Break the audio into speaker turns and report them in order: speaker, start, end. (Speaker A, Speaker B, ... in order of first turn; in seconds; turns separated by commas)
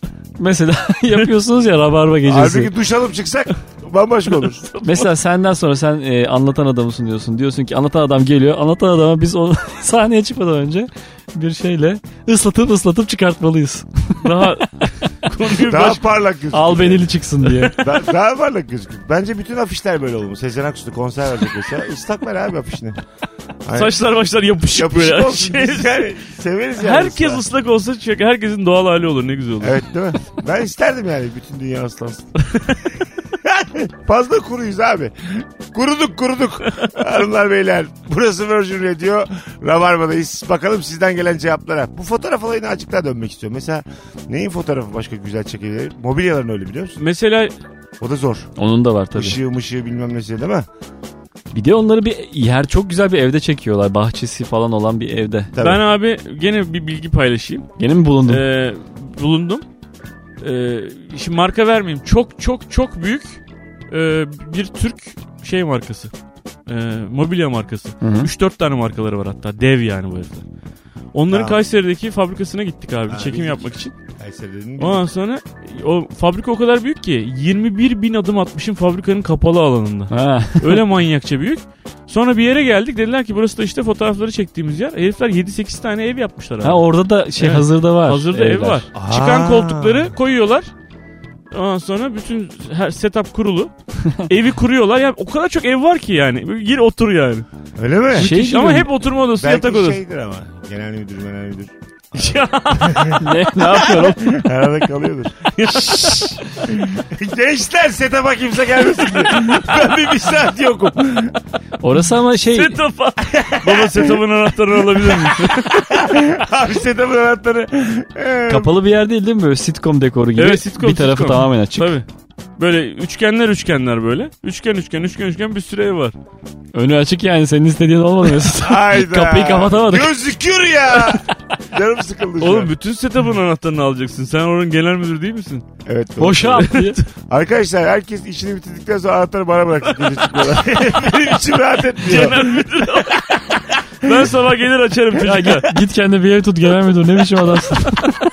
Speaker A: 0.4-2.7, Speaker B: 2.2-4.7, Speaker C: 4.4-5.0, Speaker A: 4.8-14.2, Speaker C: 14.2-16.0, Speaker B: 15.7-17.1, Speaker A: 16.5-17.8, Speaker C: 17.4-17.7, Speaker B: 17.7-23.0, Speaker B: 23.6-24.0, Speaker C: 23.7-26.1, Speaker B: 24.7-27.4, Speaker C: 26.8-29.8, Speaker B: 29.6-32.3, Speaker B: 33.4-47.0, Speaker C: 47.0-47.5, Speaker B: 48.0-48.5, Speaker A: 48.6-49.4, Speaker B: 49.1-50.7, Speaker A: 51.5-55.5, Speaker B: 55.5-55.8, Speaker C: 55.6-57.7, Speaker A: 57.8-58.4, Speaker C: 58.2-59.6, Speaker C: 60.4-66.1, Speaker C: 66.7-70.4, Speaker A: 68.0-68.3, Speaker C: 71.1-73.9, Speaker B: 71.3-71.6, Speaker B: 73.1-75.0, Speaker C: 74.8-90.7, Speaker A: 80.1-80.8, Speaker A: 86.6-88.8, Speaker B: 88.9-90.1, Speaker C: 91.5-93.7, Speaker C: 94.2-97.5, Speaker B: 97.8-98.3, Speaker C: 98.1-100.0, Speaker A: 98.2-98.9, Speaker B: 99.4-103.2, Speaker C: 102.1-104.0, Speaker A: 103.1-104.4, Speaker B: 104.0-111.3, Speaker C: 105.5-106.4, Speaker C: 109.1-109.6, Speaker A: 111.8-112.8, Speaker C: 112.5-116.0, Speaker B: 113.2-114.2, Speaker B: 114.8-118.8, Speaker A: 118.5-122.0, Speaker C: 120.4-122.0, Speaker C: 122.6-126.1, Speaker A: 126.7-130.1, Speaker B: 128.5-132.7, Speaker C: 132.4-135.7, Speaker B: 135.8-144.3, Speaker A: 136.2-137.0, Speaker C: 136.6-136.9, Speaker C: 142.0-143.3, Speaker C: 144.0-145.7, Speaker A: 145.2-148.2